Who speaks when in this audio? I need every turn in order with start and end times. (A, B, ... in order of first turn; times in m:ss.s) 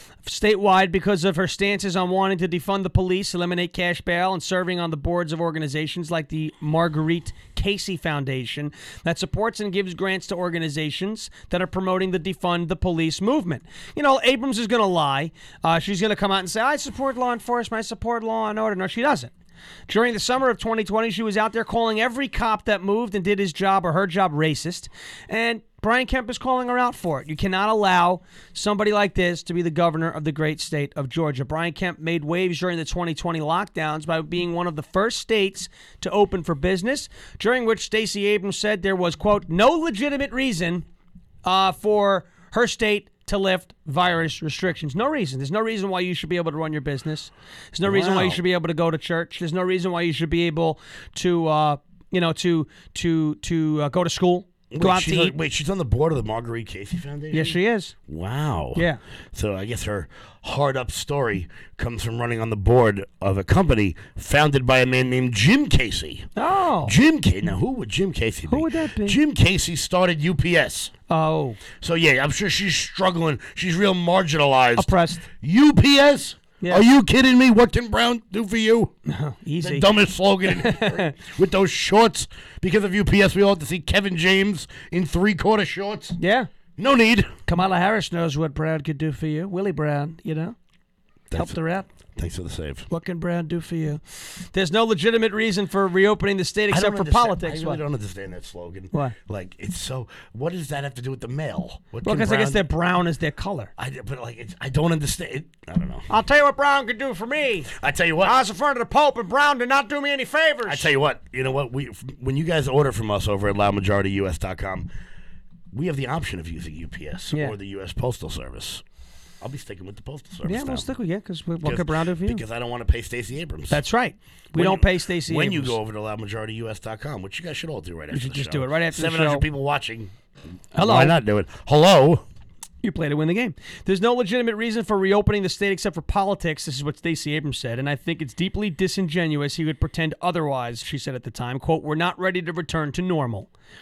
0:00.2-0:19.3 A
0:19.9-0:40.8 A
0:41.4-0:55.4 A
0:47.8-0:48.4 B
0:54.7-1:06.3 B
0:57.3-0:57.9 A
0:58.7-0:59.0 A
1:06.4-1:06.9 A
1:06.8-1:10.9 B
1:08.5-1:09.2 A
1:11.1-1:11.6 A
1:11.8-1:18.9 B
1:14.8-1:15.2 A
1:19.1-1:19.8 A
1:19.6-1:26.2 B
1:20.5-1:21.1 A
1:26.2-1:26.5 A
1:26.8-1:27.4 B
1:27.5-1:30.6 A
1:31.3-1:31.6 B
1:31.3-1:31.8 A
1:32.2-1:32.9 B
1:32.9-1:37.8 A
1:36.7-1:42.6 B
1:42.0-1:43.7 A
1:43.8-1:46.1 B
1:46.1-1:50.9 A
1:47.7-1:48.4 B
1:50.7-1:54.9 B
1:55.7-1:58.8 B
1:59.4-2:00.9 B
2:00.4-2:02.4 A
2:01.6-2:03.8 B
2:03.7-2:05.8 A
2:04.5-2:10.1 B
2:08.1-2:09.4 A
2:10.7-2:11.2 A
2:10.8-2:12.2 B
2:12.8-2:23.5 A